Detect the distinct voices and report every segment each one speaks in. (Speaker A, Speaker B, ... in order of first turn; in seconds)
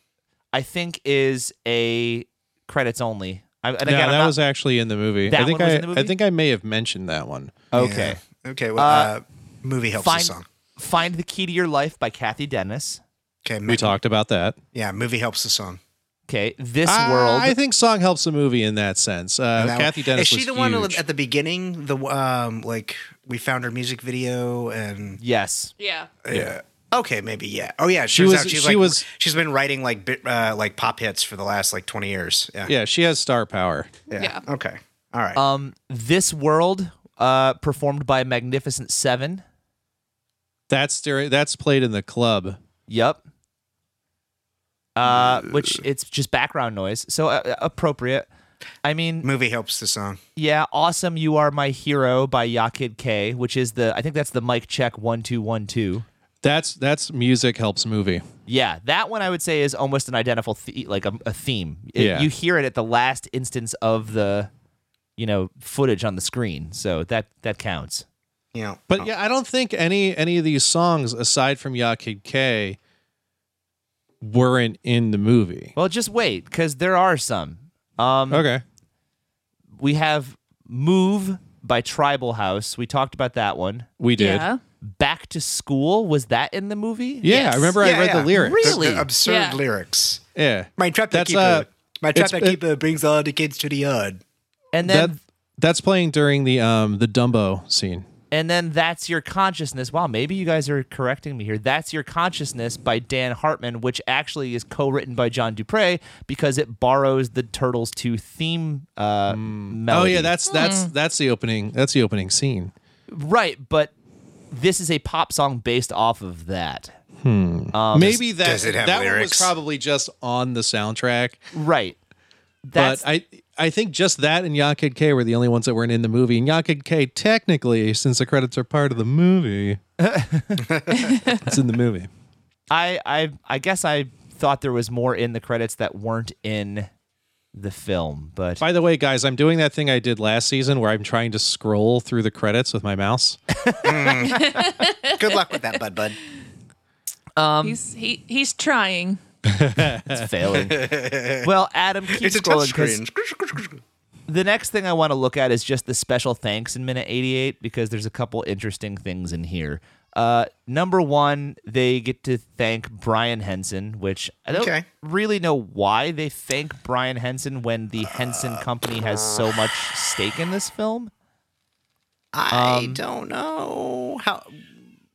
Speaker A: 0.5-4.3, 5.3-6.1, 7.7-8.2, 8.8-9.1, 10.0-13.0, 16.3-17.5, 25.2-25.7, 35.3-39.4, 42.9-43.2, 45.0-48.3, 48.8-49.3, 50.4-56.0, 58.5-64.5, 65.2-68.0, 75.8-78.5, 79.8-83.9, 84.8-87.8, 88.3-89.1, 94.7-95.2, 98.3-110.3, 113.1-113.9, 114.5-116.9, 117.7-118.2, 121.5-122.0, 122.6-123.0, 130.0-130.6, 132.7-136.9, 137.5-138.6, 143.7-144.0, 147.3-147.8, 150.1-150.9, 151.4-153.0, 154.3-171.1, 172.5-173.0
Speaker B: 3.8-7.6, 13.7-14.6, 16.9-21.0, 26.3-26.6, 28.1-29.0, 32.6-33.9, 40.7-42.6, 56.4-58.2, 62.0-62.3, 68.9-72.8, 74.2-75.7, 78.3-78.6, 84.0-84.5, 87.2-88.8, 90.3-92.6, 94.8-98.0, 109.3-112.7, 117.2-121.4, 122.7-129.8, 131.3-132.1, 138.6-143.4, 149.4-150.2
Speaker C: 7.7-10.4, 13.4-13.9, 14.7-15.8, 19.6-25.2, 26.2-32.7, 34.1-35.4, 49.2-50.2, 68.5-69.1, 87.8-90.2, 90.8-94.2, 118.4-119.5, 130.6-131.1, 143.8-146.2, 150.5-151.5, 152.1-153.8, 164.5-164.8, 172.3-174.6
Speaker D: 25.8-26.1, 34.2-34.4, 84.2-84.6, 89.2-89.6, 110.5-110.9, 131.1-131.4, 144.3-145.4, 147.6-149.2